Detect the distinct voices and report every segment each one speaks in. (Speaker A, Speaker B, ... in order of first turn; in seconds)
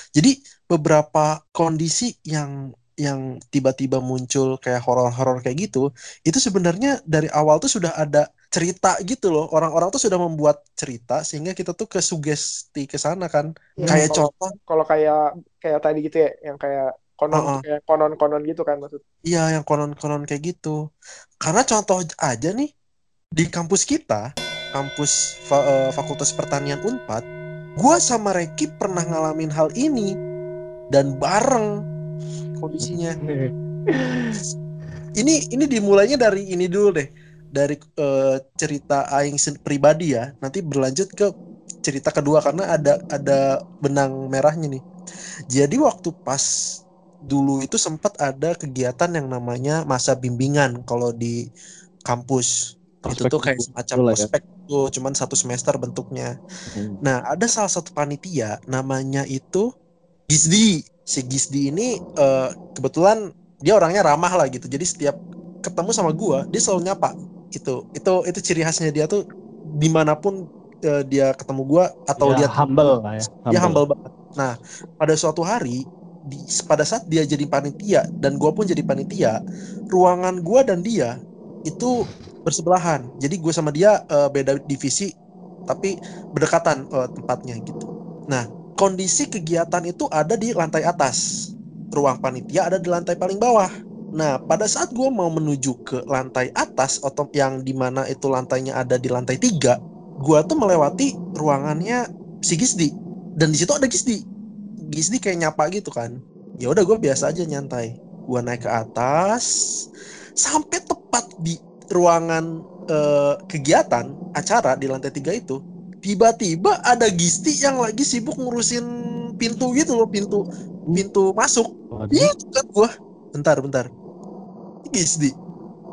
Speaker A: 0.1-2.5, 3.0-14.6, 17.3-17.6, 19.3-20.7, 21.4-22.7, 23.4-24.2, 24.7-27.2, 27.8-30.1, 30.9-31.7, 32.6-33.2, 35.2-41.3, 41.8-44.8, 45.5-46.5, 47.3-51.4, 52.1-52.5, 53.0-56.3, 57.0-59.6, 60.3-69.2, 69.8-70.3, 70.9-72.7, 73.5-75.8, 76.3-79.4, 79.9-81.1, 81.7-81.9, 82.5-85.1, 85.7-91.2, 91.9-104.2, 104.9-109.5, 110.4-118.8, 119.4-120.4, 120.9-123.9, 124.9-125.3
Speaker B: 13.8-19.0
Speaker C: 33.2-34.4, 72.2-73.3
Speaker D: 53.1-54.3, 56.7-57.0, 73.5-73.8, 121.9-122.3